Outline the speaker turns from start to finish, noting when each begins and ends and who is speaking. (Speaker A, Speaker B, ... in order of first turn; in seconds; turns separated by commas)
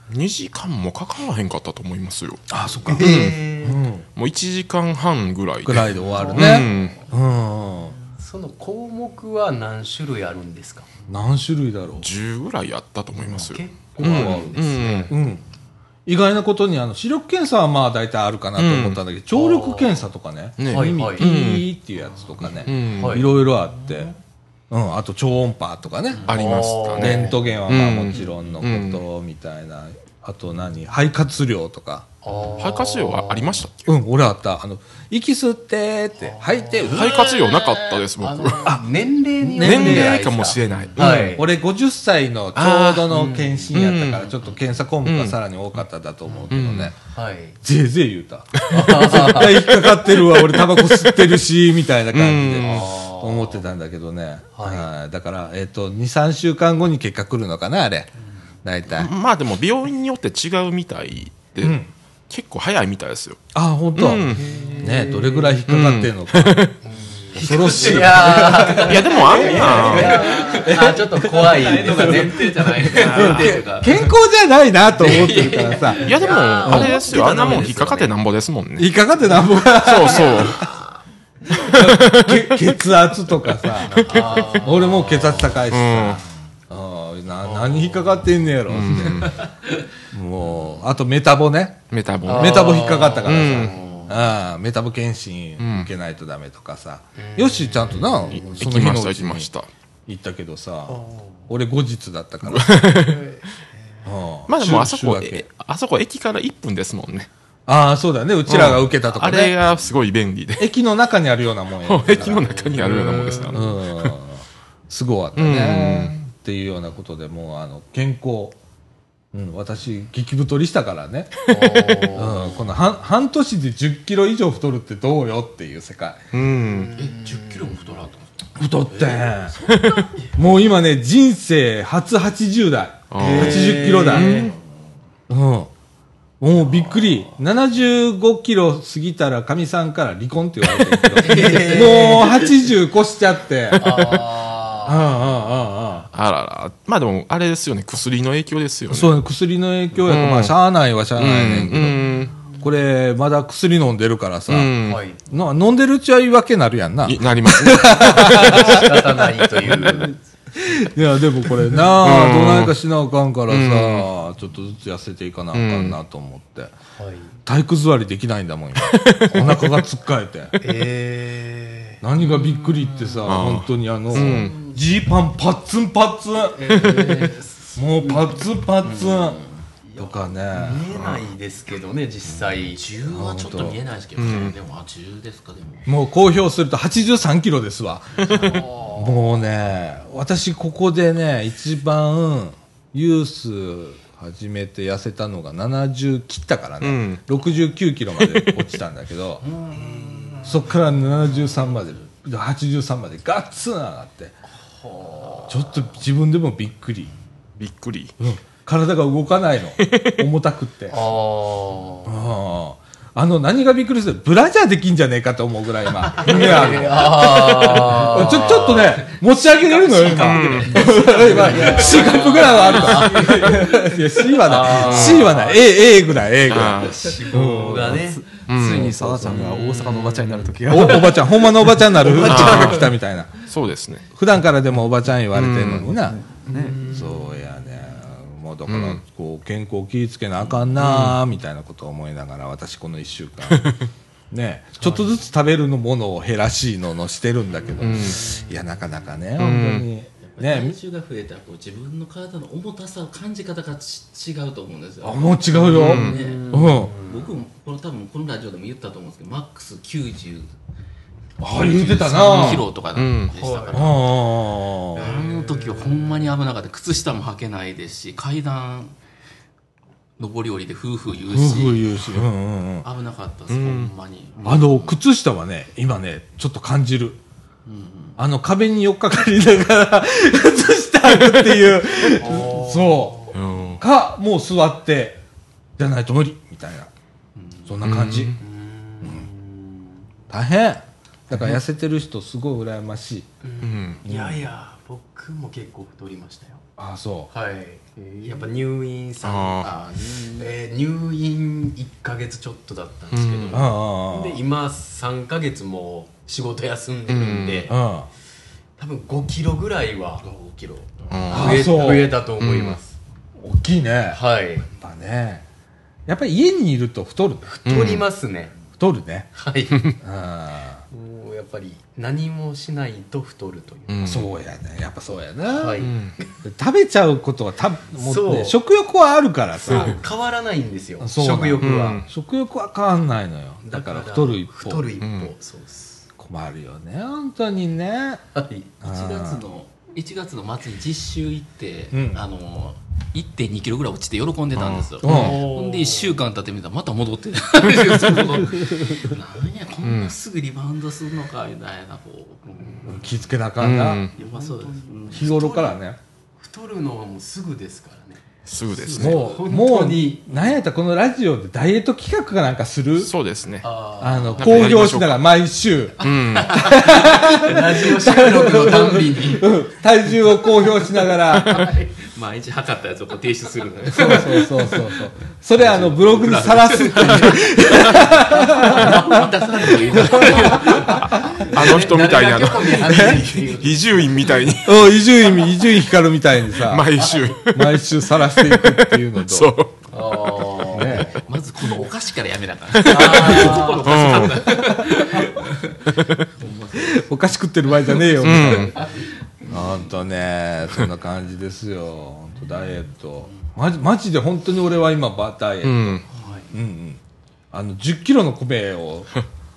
Speaker A: 0.1-3.3, Speaker B: 2.5-4.0, Speaker C: 2.9-3.8, Speaker A: 4.2-7.0, Speaker B: 5.6-8.0, Speaker C: 6.1-6.8, Speaker C: 8.1-10.9, Speaker B: 11.1-12.1, Speaker A: 12.0-15.1, Speaker C: 13.3-15.2, Speaker B: 13.9-15.4, Speaker B: 16.1-24.1, Speaker A: 18.6-19.0, Speaker C: 19.3-20.0, Speaker A: 20.6-21.7, Speaker C: 20.7-21.3, Speaker A: 22.6-23.2, Speaker C: 22.8-23.3, Speaker B: 24.7-26.3, Speaker C: 26.2-27.5, Speaker A: 26.2-29.0, Speaker B: 27.0-32.1, Speaker C: 32.2-33.6, Speaker A: 32.6-33.9, Speaker B: 33.9-37.2, Speaker C: 36.2-41.5, Speaker A: 36.9-38.7, Speaker B: 39.4-40.3, Speaker A: 39.6-41.3, Speaker B: 41.0-46.9, Speaker A: 42.5-43.1, Speaker C: 43.1-43.7, Speaker A: 43.7-44.3, Speaker A: 45.0-45.4, Speaker A: 46.5-46.9, Speaker C: 47.0-47.6, Speaker B: 47.6-58.1, Speaker A: 48.5-51.3, Speaker C: 48.7-49.7, Speaker A: 52.1-52.9, Speaker C: 52.6-53.6, Speaker C: 54.5-54.9, Speaker B: 58.6-59.1, Speaker A: 58.9-61.8, Speaker B: 61.6-61.9, Speaker A: 62.3-63.4, Speaker B: 63.5-66.7, Speaker A: 63.9-64.4, Speaker C: 64.2-65.6, Speaker A: 65.7-66.7, Speaker C: 66.8-73.7, Speaker B: 67.3-72.4, Speaker D: 67.4-74.1, Speaker A: 68.8-70.3, Speaker B: 72.9-76.1, Speaker C: 75.0-78.1, Speaker D: 75.0-78.0, Speaker A: 76.0-78.9, Speaker B: 76.6-77.0, Speaker B: 78.8-80.7, Speaker A: 79.5-80.7, Speaker A: 81.6-82.6, Speaker B: 81.6-89.5, Speaker C: 83.8-85.6, Speaker A: 84.0-84.5, Speaker A: 85.7-86.2, Speaker C: 87.4-88.3, Speaker A: 88.7-89.4, Speaker B: 90.1-99.5, Speaker A: 91.9-93.7, Speaker C: 92.2-94.3, Speaker A: 95.6-95.9, Speaker C: 97.2-98.7, Speaker A: 98.3-99.7, Speaker B: 100.1-103.0, Speaker C: 100.9-101.5, Speaker A: 102.4-103.3, Speaker B: 104.0-105.4, Speaker A: 104.5-107.3, Speaker B: 107.7-109.6, Speaker A: 108.5-110.7, Speaker B: 110.6-112.8, Speaker A: 111.8-114.1, Speaker C: 112.2-113.6, Speaker B: 113.5-118.5, Speaker A: 115.3-116.1, Speaker B: 119.3-121.5, Speaker C: 121.5-122.7, Speaker B: 122.0-126.2, Speaker A: 126.3-126.9, Speaker C: 126.7-128.0, Speaker D: 127.0-128.2, Speaker B: 128.6-129.6, Speaker D: 129.5-130.2, Speaker A: 129.7-130.1, Speaker B: 130.3-134.5, Speaker A: 133.1-134.5, Speaker C: 133.1-134.5, Speaker B: 135.3-135.7, Speaker B: 136.4-144.3, Speaker C: 141.2-142.4, Speaker D: 141.3-142.3, Speaker C: 143.8-145.2, Speaker B: 144.8-146.1, Speaker A: 146.1-149.1, Speaker B: 148.9-159.1, Speaker A: 150.0-150.5, Speaker A: 151.1-152.3, Speaker A: 154.5-155.0, Speaker C: 154.8-155.2, Speaker A: 157.0-159.0, Speaker C: 158.2-160.2, Speaker B: 159.6-166.7, Speaker A: 161.8-162.7, Speaker A: 163.5-164.1, Speaker A: 165.5-166.0, Speaker C: 166.9-167.3, Speaker B: 167.4-170.6, Speaker A: 168.8-169.7, Speaker C: 169.3-169.6, Speaker C: 170.6-173.2, Speaker B: 172.0-179.4, Speaker A: 173.2-174.5, Speaker C: 174.2-174.7, Speaker C: 176.5-178.4, Speaker C: 178.9-179.2, Speaker C: 179.9-182.9, Speaker B: 180.0-180.9, Speaker A: 180.9-181.2, Speaker D: 182.7-185.9, Speaker B: 183.1-183.8, Speaker A: 184.2-184.6, Speaker B: 185.8-199.4, Speaker C: 188.3-189.1, Speaker A: 196.8-197.2, Speaker A: 198.2-198.6, Speaker D: 199.6-200.4, Speaker C: 199.7-200.7, Speaker B: 200.4-204.3, Speaker C: 204.8-205.7, Speaker B: 205.5-207.1, Speaker A: 207.6-208.1, Speaker B: 208.2-211.0, Speaker A: 209.8-210.2, Speaker C: 210.9-212.2, Speaker B: 212.1-228.1, Speaker C: 216.2-225.6, Speaker A: 220.1-221.2, Speaker D: 221.1-223.3, Speaker A: 224.7-225.4, Speaker A: 226.4-227.2, Speaker C: 226.8-228.2, Speaker E: 227.8-232.4, Speaker A: 228.5-229.0, Speaker B: 228.7-229.5, Speaker B: 230.7-233.4, Speaker A: 232.2-232.9, Speaker A: 233.4-234.1, Speaker B: 234.1-236.2, Speaker A: 235.3-235.9, Speaker E: 235.9-236.9, Speaker C: 236.5-237.3, Speaker B: 236.8-243.7, Speaker A: 238.7-239.0, Speaker A: 240.8-241.2, Speaker B: 244.3-250.8, Speaker A: 247.8-248.3, Speaker C: 247.8-248.6, Speaker A: 249.4-249.9, Speaker D: 250.2-260.5, Speaker B: 255.0-256.9, Speaker C: 255.6-257.3, Speaker A: 255.7-256.2, Speaker B: 261.4-262.7, Speaker D: 261.5-264.0, Speaker A: 262.3-263.3, Speaker C: 263.3-263.9, Speaker B: 263.7-265.1, Speaker C: 264.9-266.3, Speaker D: 264.9-268.9, Speaker D: 270.2-272.1, Speaker B: 271.3-272.9, Speaker D: 272.8-275.0, Speaker A: 273.5-273.9, Speaker B: 274.4-277.2, Speaker D: 277.6-278.2, Speaker B: 278.2-285.2, Speaker C: 282.2-283.3, Speaker A: 283.3-283.8, Speaker B: 285.8-286.9, Speaker B: 287.7-288.4, Speaker A: 287.8-288.4, Speaker C: 288.4-290.0, Speaker B: 290.3-293.3, Speaker C: 293.4-296.6, Speaker A: 293.6-294.0, Speaker B: 294.0-294.4, Speaker B: 296.8-297.3, Speaker C: 297.3-307.8, Speaker A: 299.2-299.7, Speaker D: 299.6-300.5, Speaker A: 303.1-303.6, Speaker B: 303.5-304.4, Speaker A: 307.1-307.7, Speaker B: 307.7-308.1, Speaker C: 308.8-313.0, Speaker A: 311.1-311.7, Speaker B: 311.3-312.2, Speaker A: 312.4-312.8, Speaker B: 313.4-314.2, Speaker C: 314.1-314.7, Speaker B: 314.7-315.4, Speaker B: 316.1-317.5, Speaker C: 317.4-318.5, Speaker A: 317.6-318.0, Speaker B: 318.8-319.3, Speaker C: 319.3-319.9, Speaker B: 320.0-320.8, Speaker C: 320.9-324.1, Speaker A: 323.9-324.3, Speaker B: 324.0-325.8, Speaker C: 325.4-326.2, Speaker A: 325.8-326.1, Speaker B: 326.4-330.0, Speaker C: 328.0-328.6, Speaker C: 329.6-332.0, Speaker B: 331.0-334.9, Speaker A: 331.6-332.0, Speaker C: 333.6-336.0, Speaker A: 335.0-335.3, Speaker B: 336.2-338.2, Speaker C: 338.3-338.7, Speaker B: 338.8-339.4, Speaker D: 338.8-353.0, Speaker B: 341.9-342.2, Speaker A: 344.6-345.3, Speaker B: 345.0-345.4, Speaker C: 345.0-346.2, Speaker B: 348.6-348.9, Speaker A: 349.8-350.1, Speaker C: 352.5-353.0, Speaker B: 352.9-354.1, Speaker A: 353.6-354.1, Speaker D: 354.1-355.2, Speaker C: 354.2-355.8, Speaker B: 355.1-356.0, Speaker C: 356.4-360.6, Speaker A: 358.4-359.2, Speaker B: 358.9-363.1, Speaker A: 363.0-363.7, Speaker C: 363.6-364.8, Speaker B: 364.0-371.7, Speaker A: 364.4-365.2, Speaker A: 366.0-366.7, Speaker D: 366.4-366.8, Speaker C: 366.8-369.5, Speaker D: 371.5-374.9, Speaker B: 373.9-380.5, Speaker D: 375.5-381.8, Speaker C: 378.6-384.5, Speaker A: 381.5-385.0, Speaker B: 382.9-383.2, Speaker B: 384.6-389.6, Speaker A: 386.6-389.7, Speaker C: 387.0-387.3, Speaker C: 389.9-391.2, Speaker D: 390.2-397.0, Speaker B: 390.7-391.1, Speaker A: 392.8-394.4, Speaker C: 392.8-394.2, Speaker B: 394.4-395.1, Speaker A: 396.0-396.3, Speaker B: 396.7-398.8, Speaker A: 398.2-398.7, Speaker D: 398.4-399.1, Speaker B: 399.4-407.0, Speaker A: 405.6-406.0, Speaker C: 406.1-406.5, Speaker B: 407.5-409.1